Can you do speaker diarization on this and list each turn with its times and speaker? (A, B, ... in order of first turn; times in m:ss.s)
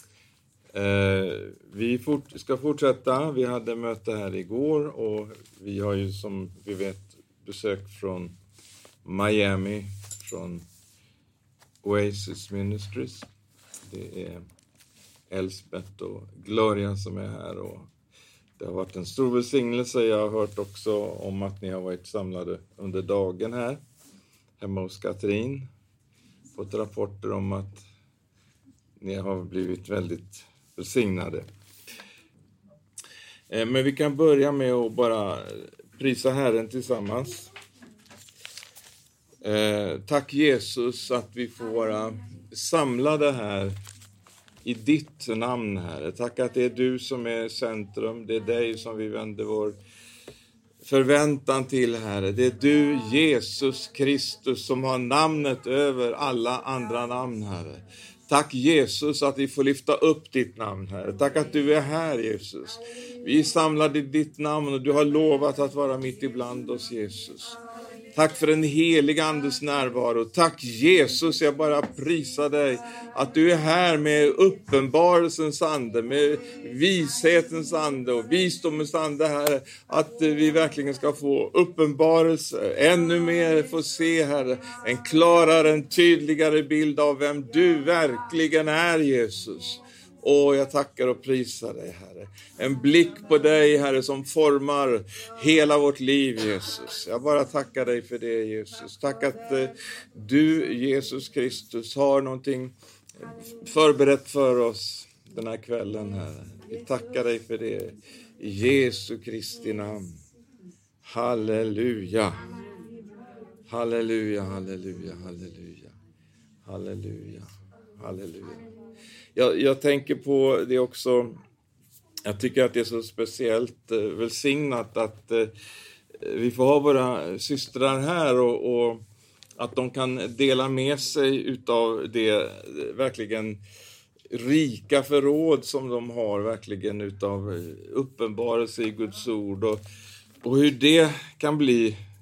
0:00.7-0:08.4 A
0:09.0-0:10.6 A
0:11.8-0:13.3 A
0:13.8-0:14.4 A
0:15.3-0:17.9 A
0:18.6-0:23.8 A
0:24.6-0:25.7 A
0:26.5-0:27.8 A
0:29.0-0:31.5 A
0:33.5-0:37.5 A
0:39.4-0:43.8 A
0:44.6-0:49.8 A
0:50.8-1:07.6 A
1:08.1-1:42.7 A
1:43.3-1:50.2 A
1:51.0-1:52.4 A
1:53.7-1:55.9 A
1:56.6-1:58.6 A
1:59.4-2:01.4 A
2:02.2-2:05.5 A
2:06.2-2:09.0 A
2:09.6-2:13.6 A
2:14.3-2:19.8 A
2:20.4-2:22.0 A